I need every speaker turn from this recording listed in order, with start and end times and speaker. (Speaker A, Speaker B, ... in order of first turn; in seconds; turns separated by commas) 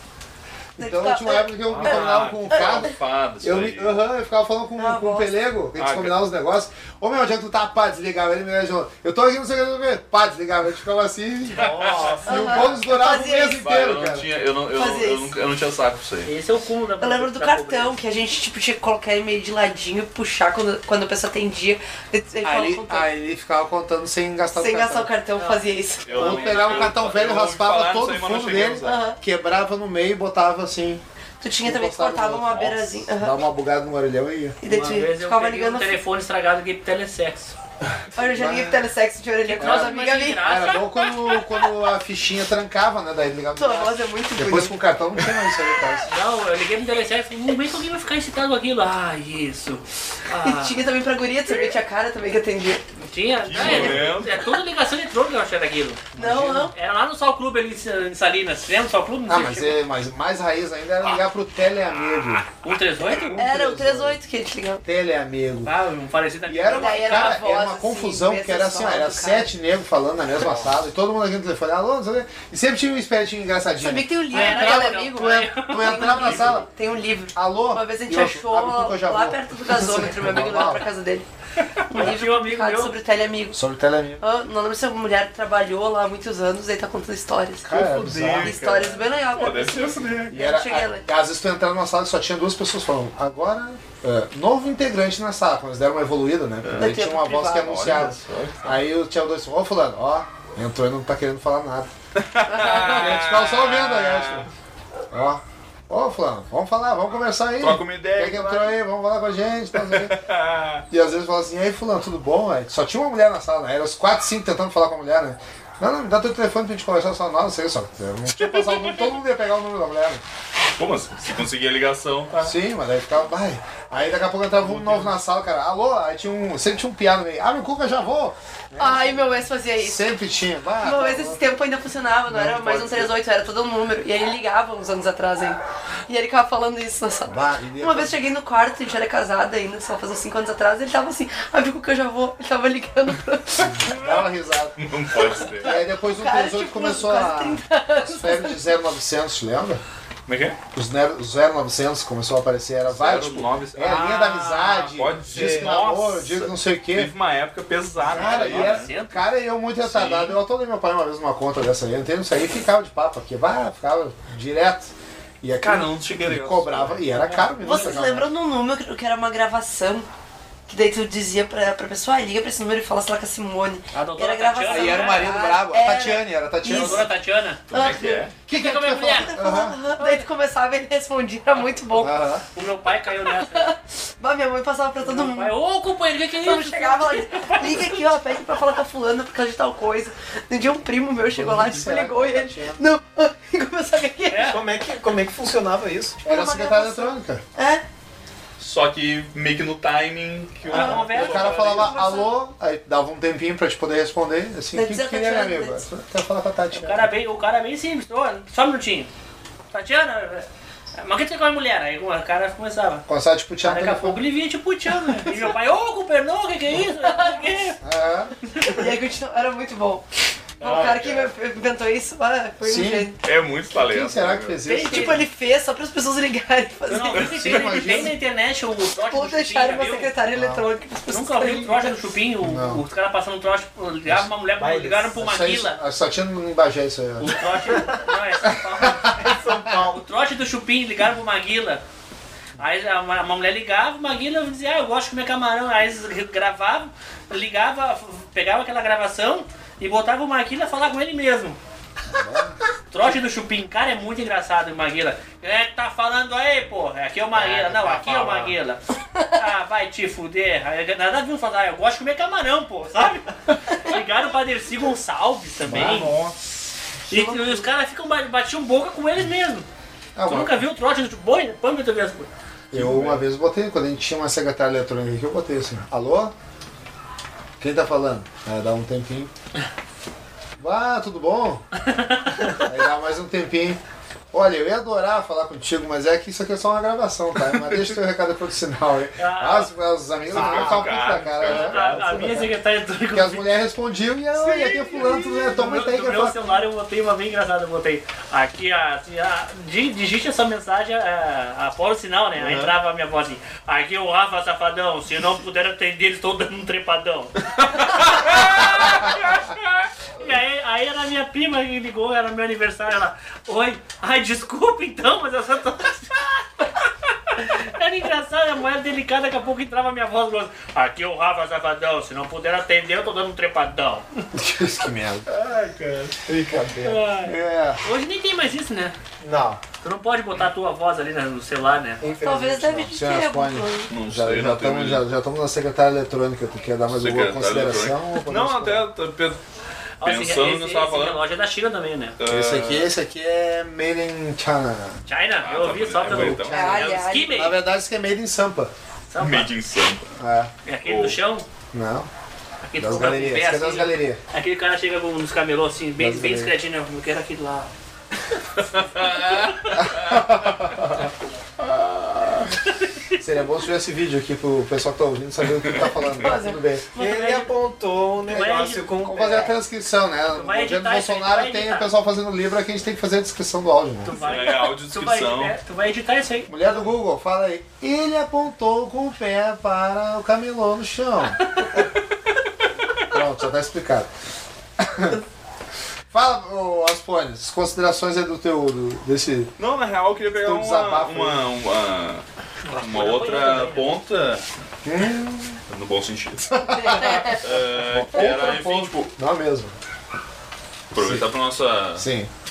Speaker A: 0.8-2.9, Speaker B: 0.8-14.3, Speaker C: 1.7-4.0, Speaker A: 4.8-5.3, Speaker C: 5.8-6.2, Speaker C: 11.5-12.2, Speaker D: 11.5-12.6, Speaker A: 12.2-13.6, Speaker C: 13.6-16.3, Speaker A: 14.7-15.3, Speaker E: 16.2-18.0, Speaker A: 17.0-23.1, Speaker B: 22.4-25.1, Speaker A: 24.5-26.6, Speaker E: 25.4-25.6, Speaker C: 26.0-29.0, Speaker B: 26.1-31.0, Speaker A: 28.8-29.2, Speaker A: 31.4-33.4, Speaker B: 31.6-34.6, Speaker A: 34.6-36.0, Speaker E: 34.6-37.5, Speaker A: 38.1-40.5, Speaker B: 38.2-38.9, Speaker E: 39.5-41.4, Speaker B: 39.6-46.1, Speaker A: 43.5-44.8, Speaker E: 46.1-50.8, Speaker A: 50.4-52.8, Speaker E: 53.0-56.0, Speaker C: 53.4-54.4, Speaker B: 53.6-54.0, Speaker A: 53.6-54.0, Speaker B: 56.1-56.7, Speaker A: 56.2-56.7, Speaker E: 56.7-59.8, Speaker B: 59.3-62.5, Speaker E: 62.5-63.4, Speaker B: 63.0-64.2, Speaker A: 63.3-64.8, Speaker B: 64.8-65.7, Speaker E: 65.6-67.4, Speaker B: 66.5-76.7, Speaker A: 66.7-69.5, Speaker D: 70.4-70.7, Speaker A: 73.8-81.3, Speaker E: 74.3-76.4, Speaker C: 76.2-76.5, Speaker B: 77.3-80.9, Speaker A: 81.9-83.6, Speaker E: 81.9-83.0, Speaker B: 83.5-84.2, Speaker A: 84.2-87.7, Speaker B: 87.6-88.5, Speaker C: 87.7-90.3, Speaker A: 88.4-91.0, Speaker B: 90.3-101.9, Speaker C: 96.6-98.8, Speaker A: 96.8-97.7, Speaker C: 102.2-104.5, Speaker A: 102.5-103.1, Speaker B: 102.7-104.5, Speaker B: 105.1-110.2, Speaker C: 107.6-108.8, Speaker C: 109.7-110.8, Speaker B: 110.9-120.2, Speaker E: 118.4-119.1, Speaker C: 120.8-122.5, Speaker B: 122.4-131.4, Speaker C: 124.6-125.2, Speaker A: 128.8-130.1, Speaker A: 130.8-143.9, Speaker B: 132.3-133.1, Speaker B: 137.2-138.2, Speaker B: 143.6-144.9, Speaker C: 144.8-145.7, Speaker B: 145.5-149.8, Speaker A: 145.6-148.6, Speaker C: 150.2-150.6, Speaker B: 150.7-157.1, Speaker C: 152.9-158.9, Speaker B: 158.0-168.3, Speaker E: 158.1-159.2, Speaker C: 159.8-160.4, Speaker C: 165.6-167.0, Speaker E: 167.1-167.9, Speaker A: 167.6-170.1, Speaker A: 170.7-177.0, Speaker E: 173.9-175.3, Speaker B: 174.7-177.1, Speaker E: 176.6-177.6, Speaker C: 177.7-178.3, Speaker A: 177.7-178.3, Speaker B: 178.5-179.8, Speaker E: 178.5-179.3, Speaker A: 179.0-182.2, Speaker E: 180.0-180.2, Speaker B: 181.9-182.4, Speaker E: 182.5-183.7, Speaker A: 183.2-185.5, Speaker E: 185.0-188.1, Speaker A: 186.4-194.6, Speaker B: 191.2-192.8, Speaker E: 194.3-194.6, Speaker D: 194.4-196.2, Speaker B: 196.2-197.4, Speaker A: 196.2-197.8, Speaker C: 198.6-201.7, Speaker E: 200.7-202.0, Speaker A: 200.7-202.3, Speaker B: 200.9-207.1, Speaker A: 204.7-205.8, Speaker E: 206.7-209.1, Speaker E: 209.7-210.5, Speaker E: 211.0-213.0, Speaker B: 213.1-214.2, Speaker E: 213.6-217.8, Speaker A: 217.0-217.6, Speaker B: 217.8-218.3, Speaker E: 218.6-218.8, Speaker A: 218.6-220.1, Speaker A: 220.6-223.2, Speaker E: 220.6-221.2, Speaker B: 222.6-223.1, Speaker C: 223.2-224.6, Speaker B: 223.7-225.2, Speaker E: 224.6-225.2, Speaker A: 224.7-228.1, Speaker E: 226.9-230.1, Speaker B: 227.1-228.2, Speaker A: 229.0-232.1, Speaker B: 230.3-230.7, Speaker E: 231.1-235.8, Speaker B: 232.4-232.8, Speaker D: 234.6-235.1, Speaker B: 235.2-237.4, Speaker E: 237.2-241.8, Speaker D: 237.7-238.1, Speaker B: 238.5-239.1, Speaker D: 239.2-240.0, Speaker E: 242.6-251.6, Speaker B: 252.1-252.6, Speaker E: 252.9-258.8, Speaker D: 257.3-258.5, Speaker E: 259.3-266.1, Speaker B: 265.7-266.4, Speaker E: 267.1-269.7, Speaker A: 267.1-267.6, Speaker B: 270.1-270.6, Speaker E: 270.2-272.3, Speaker B: 272.7-276.3, Speaker C: 272.7-273.2, Speaker B: 277.6-279.3, Speaker B: 280.6-281.6, Speaker E: 281.8-282.6, Speaker B: 282.6-283.8, Speaker B: 284.3-292.5, Speaker E: 289.2-289.7, Speaker D: 290.3-291.2, Speaker C: 290.3-292.3, Speaker E: 291.4-293.5, Speaker B: 293.1-296.4, Speaker D: 294.7-295.0, Speaker E: 295.5-309.2, Speaker C: 308.0-309.9, Speaker E: 310.2-316.7, Speaker E: 317.3-324.1, Speaker B: 324.3-325.3, Speaker D: 325.3-327.0, Speaker E: 326.8-328.9, Speaker B: 327.2-327.8, Speaker D: 329.2-329.6, Speaker E: 329.8-332.0, Speaker D: 332.0-332.9, Speaker A: 332.2-333.9, Speaker B: 332.8-338.9, Speaker C: 333.9-335.0, Speaker C: 336.9-339.4, Speaker E: 340.0-342.2, Speaker C: 340.0-341.2, Speaker C: 342.2-342.9, Speaker B: 342.2-345.0, Speaker E: 345.1-347.5, Speaker C: 345.4-346.9, Speaker B: 346.1-348.7, Speaker A: 346.5-347.5, Speaker E: 349.1-349.5, Speaker C: 349.2-350.1, Speaker B: 350.2-350.5, Speaker E: 350.6-351.4, Speaker C: 350.8-351.2, Speaker B: 351.7-352.1, Speaker E: 352.6-357.7, Speaker B: 352.8-354.2, Speaker B: 356.0-356.5, Speaker C: 358.6-360.3, Speaker B: 359.8-361.0, Speaker C: 361.6-362.5, Speaker E: 362.9-363.2, Speaker B: 363.2-366.8, Speaker C: 365.5-366.1, Speaker A: 366.2-366.6, Speaker D: 366.9-369.4, Speaker E: 366.9-367.5, Speaker E: 368.2-369.0, Speaker B: 369.0-374.1, Speaker A: 369.1-369.5, Speaker E: 370.3-371.9, Speaker E: 374.0-376.5, Speaker C: 374.1-375.6, Speaker B: 376.5-381.6, Speaker B: 383.0-384.1, Speaker B: 384.8-385.2, Speaker B: 386.1-389.5, Speaker C: 389.6-392.2, Speaker B: 390.4-391.5, Speaker E: 392.6-394.0, Speaker C: 392.8-394.4, Speaker B: 394.8-395.6, Speaker C: 395.7-399.1, Speaker A: 396.6-397.4, Speaker B: 396.6-399.7, Speaker C: 400.9-402.1, Speaker B: 400.9-401.3, Speaker B: 401.9-402.3